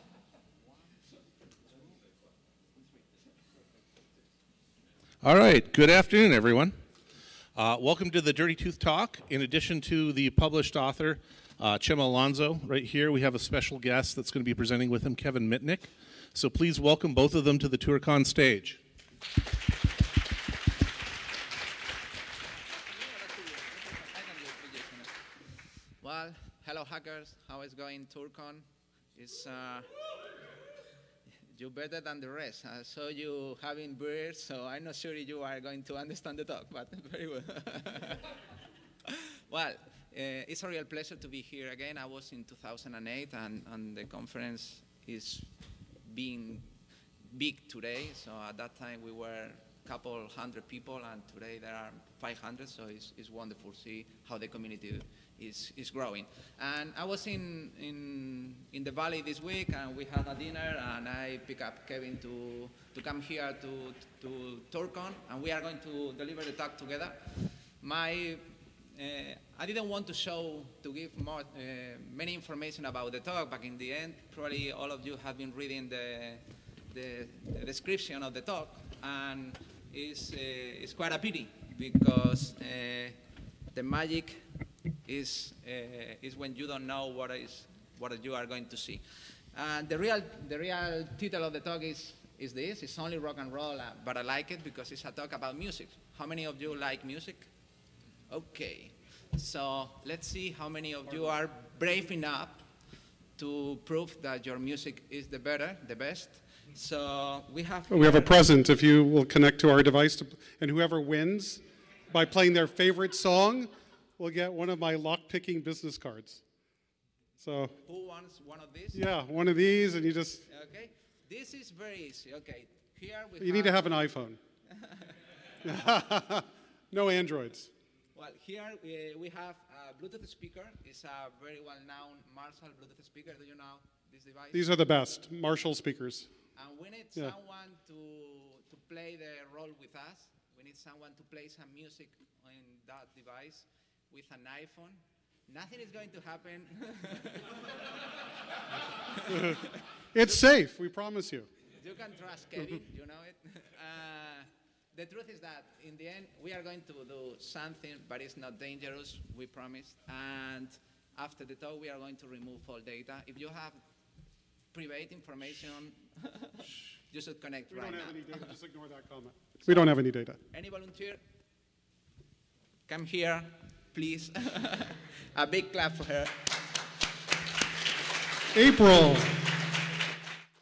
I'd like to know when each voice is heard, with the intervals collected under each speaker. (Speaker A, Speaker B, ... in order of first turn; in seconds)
Speaker A: 5.2-6.8, 7.5-18.8
Speaker B: 22.9-25.3, 26.0-29.9, 31.4-38.3, 39.0-83.2, 83.7-84.4, 85.0-97.5, 98.3-102.7, 103.4-108.4, 117.8-119.0, 120.5-123.9, 124.7-125.2, 128.1-134.7, 136.5-147.6, 149.1-149.7, 151.7-163.8, 164.7-168.5, 169.6-169.9, 170.5-171.2, 172.9-176.6
Speaker C: 107.9-116.4, 117.4-117.8, 118.9-120.5, 123.4-124.4, 125.6-127.7, 134.5-136.3, 149.3-149.6, 150.1-151.5, 167.7-170.4, 178.5-179.4